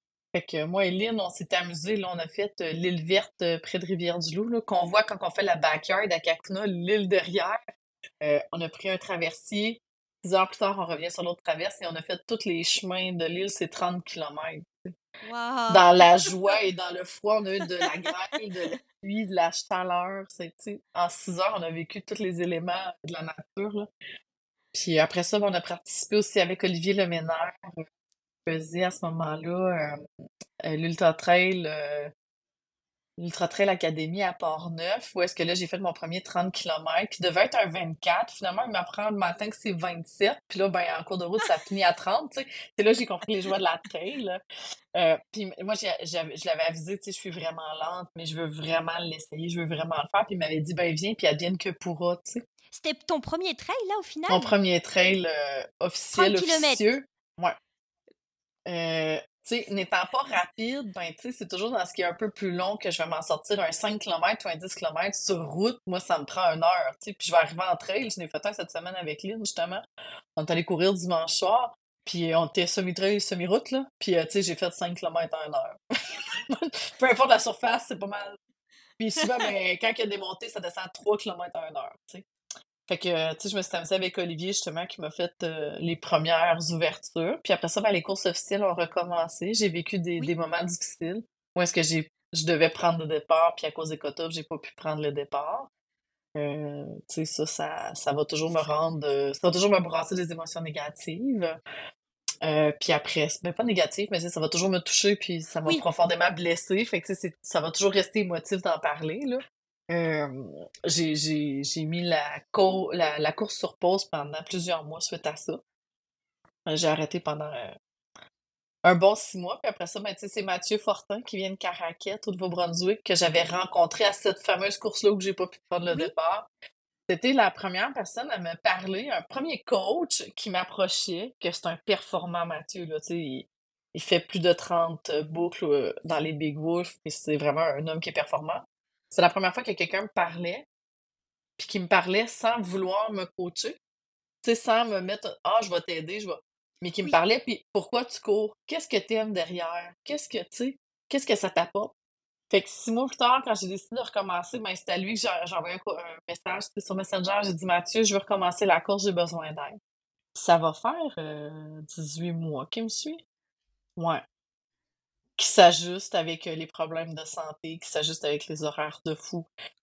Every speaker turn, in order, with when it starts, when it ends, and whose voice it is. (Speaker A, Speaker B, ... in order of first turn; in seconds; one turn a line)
Speaker A: 0.3-7.6
Speaker A: 8.2-14.9
Speaker B: 15.2-16.6
Speaker A: 15.7-23.9
Speaker A: 24.7-27.8
Speaker A: 28.4-30.1
Speaker A: 30.6-32.1
Speaker A: 33.2-44.4
Speaker A: 44.9-52.4
Speaker B: 52.7-54.5
Speaker A: 54.3-57.5
Speaker B: 56.1-56.8
Speaker A: 58.6-69.8
Speaker A: 70.3-78.3
Speaker A: 79.0-82.2
Speaker B: 79.2-79.5
Speaker A: 82.9-95.7
Speaker A: 96.3-101.6
Speaker A: 102.4-115.6
Speaker A: 116.7-117.7
Speaker A: 118.8-126.5
Speaker A: 127.1-140.6
Speaker A: 141.6-143.8
Speaker A: 144.4-151.9
Speaker A: 152.5-159.8
Speaker A: 160.3-163.2
Speaker A: 164.0-164.2
Speaker A: 165.4-169.5